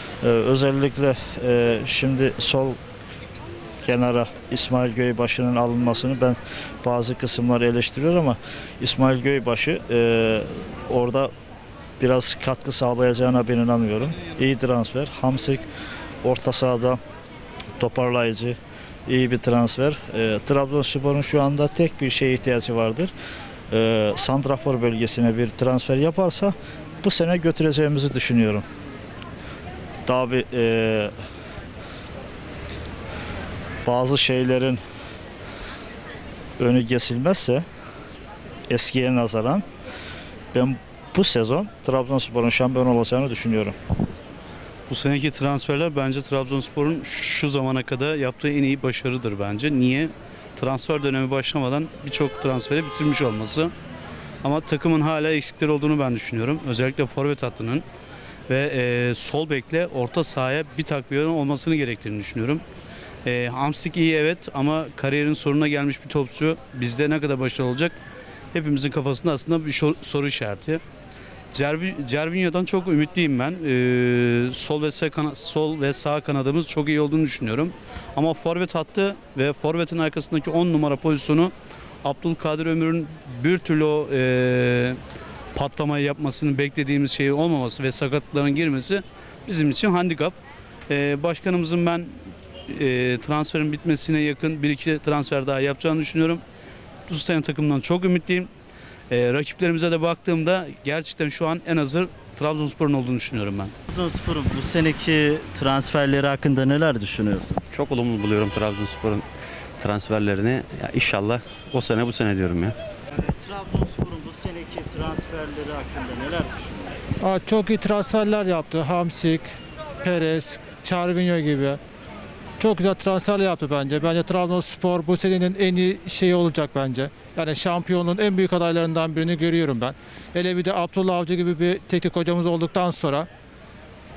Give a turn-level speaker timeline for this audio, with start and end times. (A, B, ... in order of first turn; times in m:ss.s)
0:00.2-0:02.8 A
0:03.8-0:11.3 A
0:12.0-0:15.6 A
0:16.2-0:17.0 A
0:17.8-0:23.1 A
0:23.7-0:28.6 A
0:30.1-0:31.1 A
0:33.8-0:34.8 A
0:36.6-0:37.6 A
0:38.7-0:39.6 A
0:40.5-0:43.8 A
0:44.9-0:53.7 B
0:54.4-0:57.8 B
0:58.5-1:02.6 B
1:03.2-1:08.0 B
1:08.5-1:10.8 B
1:11.5-1:25.0 B
1:25.6-1:30.4 B
1:30.9-1:32.1 B
1:32.7-1:36.4 B
1:37.1-1:38.5 B
1:39.1-1:43.7 B
1:43.9-1:47.6 C
1:47.7-1:49.2 D
1:49.8-1:52.8 D
1:53.1-1:57.1 C
1:57.2-1:59.5 E
2:00.0-2:01.8 E
2:02.6-2:13.3 E